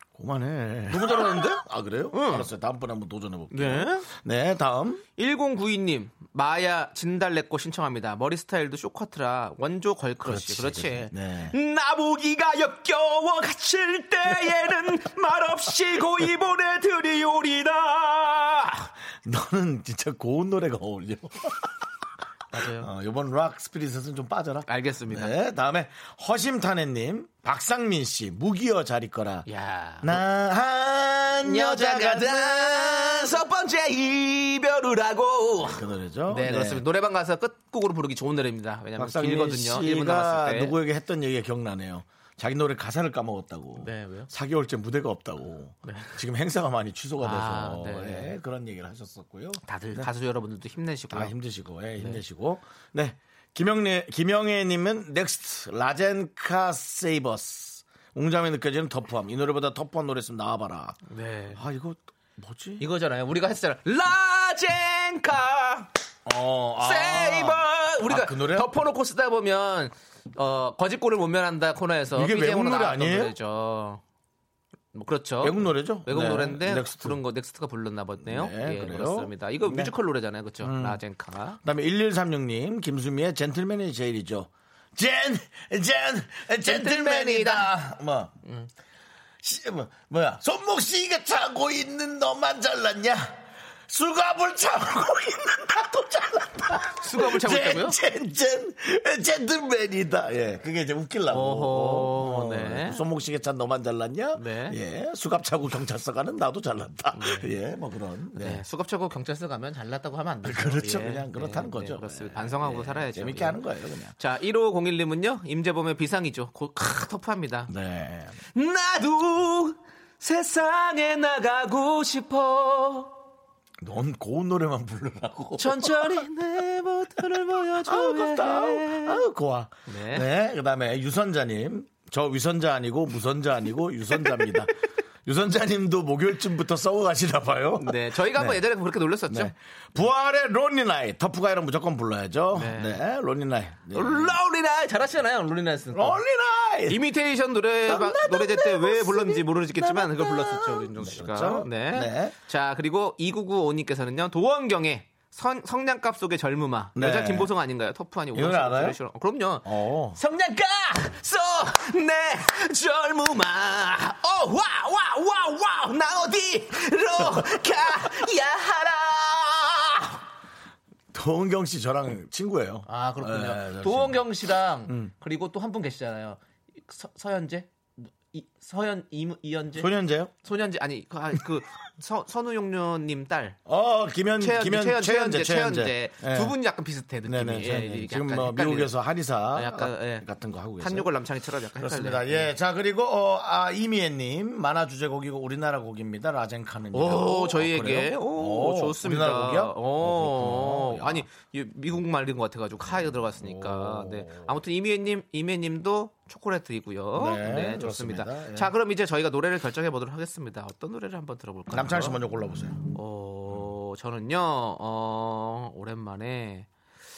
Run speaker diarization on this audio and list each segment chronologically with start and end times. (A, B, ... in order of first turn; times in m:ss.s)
0:00.2-0:05.0 A
0:00.9-0:01.6 B
0:02.1-0:02.5 B
0:03.5-0:04.1 B
0:05.2-0:18.9 B
0:10.2-0:11.6 A
0:19.2-0:21.8 A
0:22.5-0:22.9 B
0:22.6-0:29.5 A
0:24.7-0:25.4 B
0:29.5-0:30.2 B
0:30.0-0:33.3 A
0:31.4-0:40.7 B
0:35.6-0:36.8 A
0:39.0-0:50.1 A
0:43.8-0:44.3 B
0:45.8-0:46.2 B
0:47.2-0:48.3 B
0:49.7-0:51.3 B
0:51.1-1:01.0 A
1:01.1-1:01.6 B
1:01.5-1:02.8 A
1:02.8-1:05.9 B
1:06.3-1:08.7 A
1:06.8-1:14.0 B
1:12.1-1:13.3 A
1:14.9-1:21.6 B
1:15.4-1:17.2 A
1:18.2-1:19.9 A
1:20.6-1:21.0 A
1:21.6-1:28.4 A
1:26.6-1:27.8 B
1:28.4-1:28.7 B
1:29.4-1:48.6 A
1:36.9-1:38.0 B
1:41.3-1:43.0 B
1:44.4-1:44.8 B
1:47.1-1:47.5 B
1:48.4-1:53.6 B
1:50.4-1:54.2 A
1:54.2-1:57.7 B
1:57.7-1:58.4 A
1:58.5-2:03.1 B
2:03.8-2:06.2 A
2:05.6-2:09.2 B
2:07.8-2:14.7 A
2:09.9-2:10.3 B
2:14.2-2:14.5 B
2:15.2-2:18.6 A
2:17.8-2:19.5 B
2:19.3-2:24.4 A
2:22.5-2:23.0 B
2:23.9-2:26.2 B
2:25.9-2:27.0 A
2:26.9-2:50.2 B
2:27.9-2:32.4 A
2:37.0-2:37.5 A
2:38.3-2:39.0 A
2:39.6-2:40.2 A
2:51.1-2:54.2 A
2:52.9-2:59.9 B
2:54.9-2:55.1 A
2:59.8-3:00.3 A
3:00.4-3:03.6 B
3:03.7-3:06.6 A
3:04.4-3:08.9 B
3:07.3-3:11.1 A
3:09.5-3:10.2 B
3:10.8-3:12.5 B
3:11.8-3:21.2 A
3:16.9-3:32.2 B
3:23.4-3:24.4 A
3:27.2-3:28.7 A
3:31.7-3:32.8 A
3:33.0-3:36.7 B